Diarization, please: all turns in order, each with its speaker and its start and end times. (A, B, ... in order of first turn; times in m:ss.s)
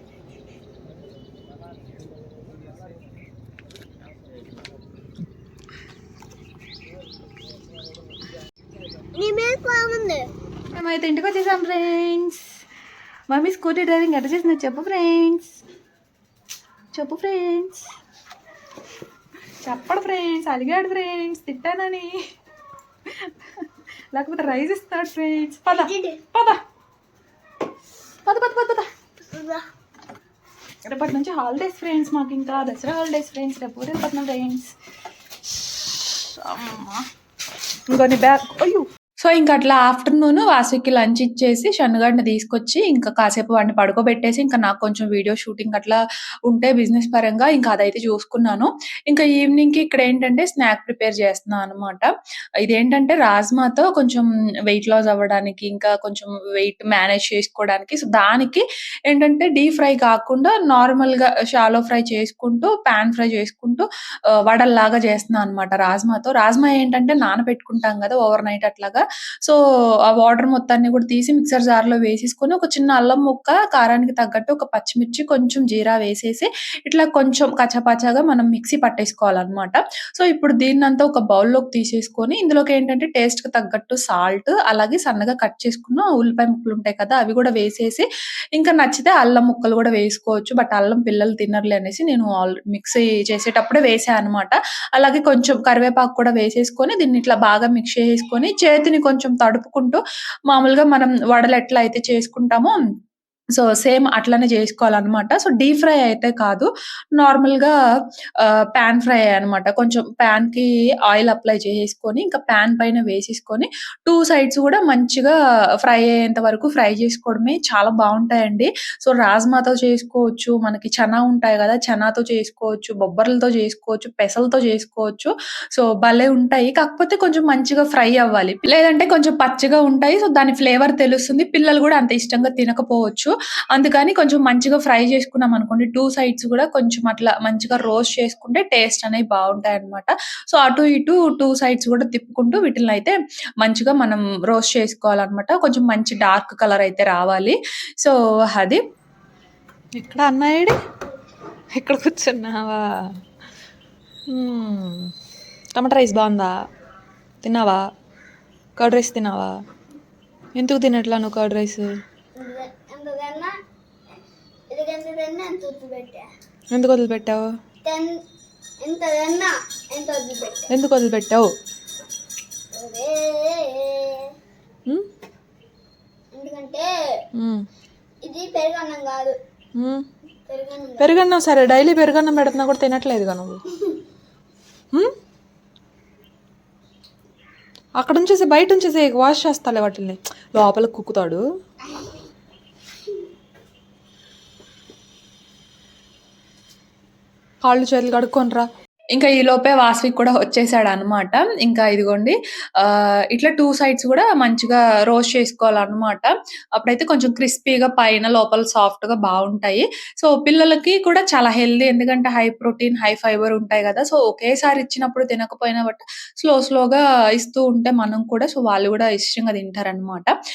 0:09.1-0:10.3 A
0:10.7-0:12.4 B
0:13.3-0:15.6 B
0:16.9-0:17.8 B
0:19.6-0:22.1 B
0:23.1-0:26.6 B
0:25.8-0:26.2 A
0:28.2-0:28.9 B
0:29.3-0:29.6 A
0:30.8-0:34.7 B
0:35.7-0:37.0 B
0:37.9-0:38.9 B
0:39.2-0:52.1 C
0:52.6-1:03.8 C
1:04.4-1:42.8 C
1:43.6-1:47.7 C
1:48.4-2:28.8 C
2:30.0-2:30.8 B
2:31.8-2:32.8 B
2:34.3-2:35.1 B
2:35.8-2:36.5 B
2:37.4-2:37.9 B
2:38.8-2:39.6 B
2:40.6-2:41.9 B
2:42.3-2:43.5 A
2:44.7-2:46.3 A
2:46.7-2:47.4 B
2:47.8-2:48.2 A
2:48.8-2:50.7 A
2:50.7-2:51.5 B
2:52.7-2:54.3 A
2:56.3-2:56.9 A
2:57.4-2:57.7 B
2:58.2-2:59.4 A
2:59.8-3:00.1 B
3:00.5-3:01.2 A
3:01.0-3:03.6 B
3:08.0-3:11.4 B
3:17.6-3:18.7 B
3:19.1-3:40.3 C